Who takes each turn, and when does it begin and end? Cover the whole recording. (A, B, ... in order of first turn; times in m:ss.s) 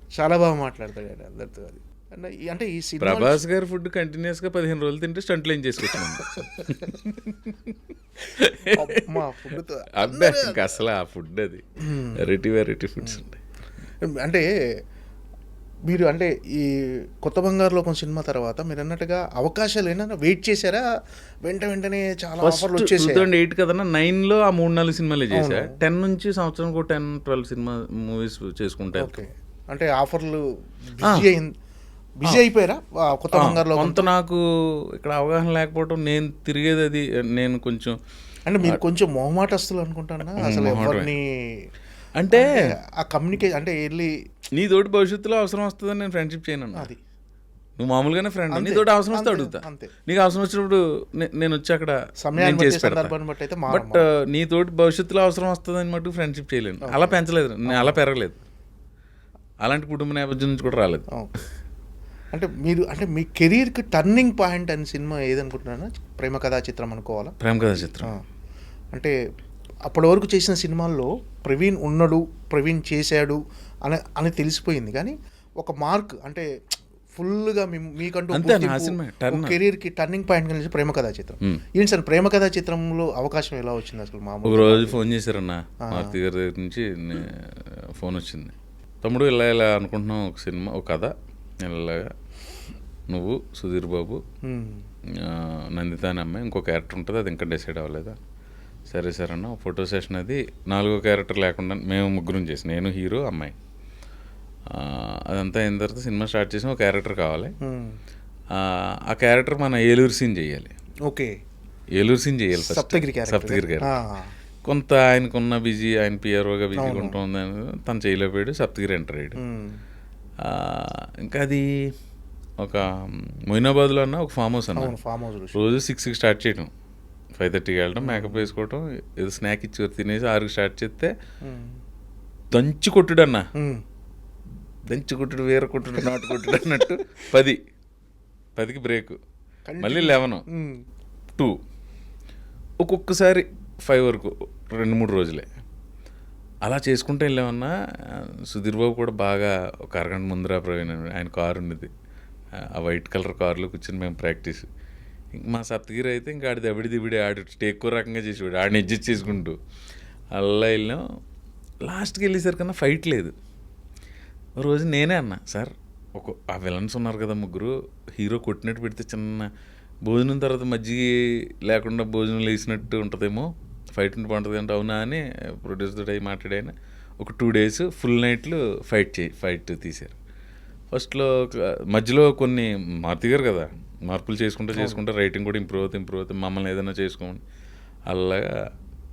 0:00.2-0:03.4 A
0:03.0-0:13.4 B
0:08.8-0:10.6 A
0:14.1-0:14.5 A
0:15.9-0:16.7 A
0:17.2-0:20.8 A
0:21.5-0:23.2 A
0:22.4-0:29.3 B
0:25.3-0:25.7 A
0:29.0-0:30.4 A
0:31.0-0:31.3 B
0:31.0-0:31.5 A
0:32.2-0:34.1 A
0:33.3-0:34.4 B
0:35.0-0:38.0 B
0:38.5-0:41.7 A
0:40.3-0:41.2 B
0:42.2-0:42.8 B
0:42.4-0:44.1 A
0:44.6-0:47.0 B
0:47.8-0:53.2 B
0:48.5-0:49.9 A
0:52.3-0:54.0 A
0:53.7-0:58.4 B
0:57.7-0:57.9 A
0:59.6-1:01.1 B
1:02.3-1:07.4 A
1:07.4-1:08.2 B
1:09.9-1:16.5 A
1:17.2-1:25.0 A
1:18.3-1:19.6 B
1:24.4-1:32.1 B
1:33.1-1:34.2 B
1:34.4-1:34.8 A
1:35.2-1:38.2 B
1:38.9-1:43.6 B
1:44.7-1:47.5 B
1:47.7-1:48.0 A
1:48.5-1:50.7 B
1:52.0-1:54.0 B
1:52.6-1:54.3 A
1:54.7-1:59.4 B
1:56.8-1:57.1 A
1:59.4-1:59.8 A
2:00.4-2:01.7 B
2:02.6-2:05.0 B
2:04.8-2:05.6 A
2:05.5-2:06.7 B
2:07.4-2:11.1 B
2:08.0-2:08.4 A
2:11.5-2:11.8 A
2:12.5-2:13.5 B
2:13.6-2:13.8 A
2:14.9-2:17.6 B
2:18.6-2:19.2 B
2:19.7-2:20.8 A
2:19.8-2:20.5 B
2:22.8-2:25.5 B
2:26.6-2:31.9 B
2:32.6-2:34.7 B
2:35.3-2:39.6 B
2:40.3-2:41.0 B
2:41.8-2:43.4 B
2:44.6-2:49.5 B
2:50.0-3:00.2 B
3:00.9-3:07.4 B
3:08.1-3:08.5 B